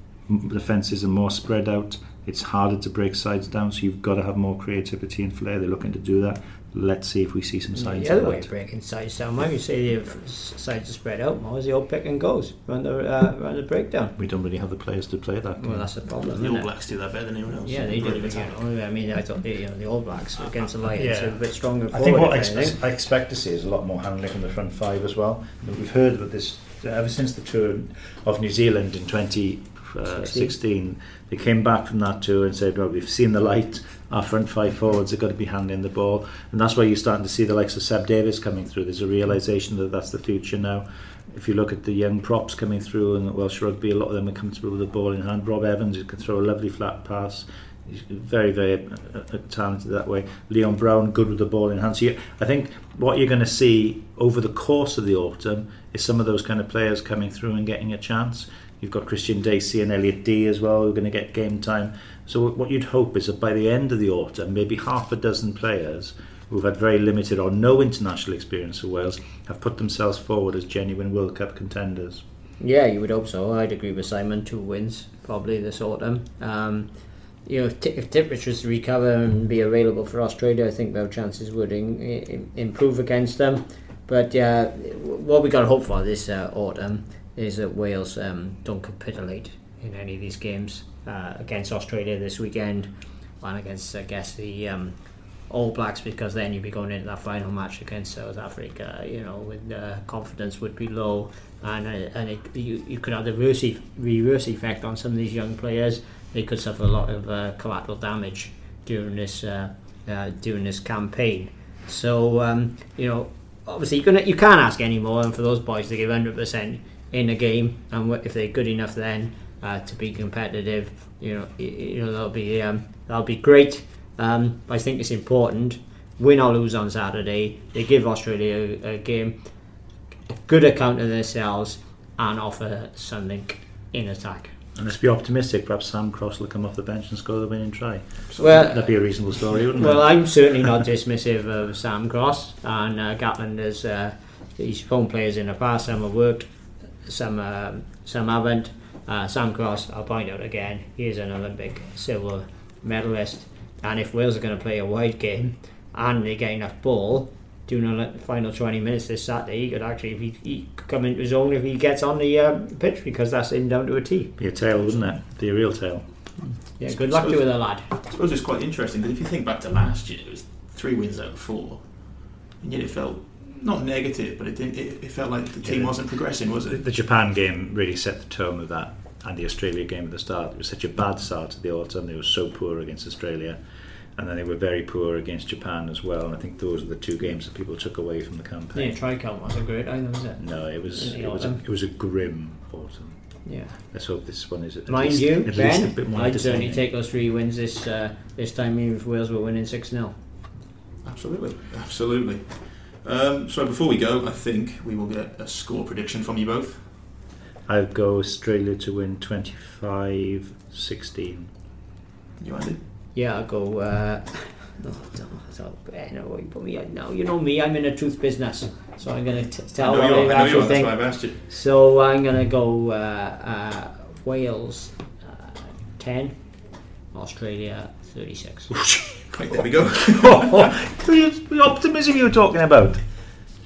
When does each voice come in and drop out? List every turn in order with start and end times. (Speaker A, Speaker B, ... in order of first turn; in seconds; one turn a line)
Speaker A: 0.3-8.5
Speaker B: 7.7-14.1
Speaker A: 14.2-15.9
Speaker B: 15.6-16.7
Speaker C: 16.2-18.6
Speaker B: 17.6-22.8
Speaker A: 20.9-72.2
Speaker B: 30.1-30.5
Speaker B: 72.6-76.9
Speaker B: 77.5-129.4
Speaker B: 130.4-134.5
Speaker A: 134.8-140.2
Speaker B: 138.4-138.9
Speaker B: 139.7-146.5
Speaker B: 147.0-164.3
Speaker A: 164.4-166.0
Speaker B: 166.8-167.9
Speaker C: 166.8-176.8
Speaker A: 175.6-175.9
Speaker A: 176.7-183.6
Speaker A: 184.2-189.0
Speaker B: 188.7-191.6
Speaker A: 190.4-193.2
Speaker B: 193.4-193.8
Speaker A: 193.8-196.8
Speaker B: 194.9-200.1
Speaker C: 201.0-206.9
Speaker A: 207.7-211.5
Speaker C: 212.4-212.8
Speaker B: 213.1-226.4
Speaker C: 219.8-221.4
Speaker B: 227.1-228.8
Speaker A: 228.7-229.4
Speaker C: 229.3-230.7
Speaker A: 230.0-233.0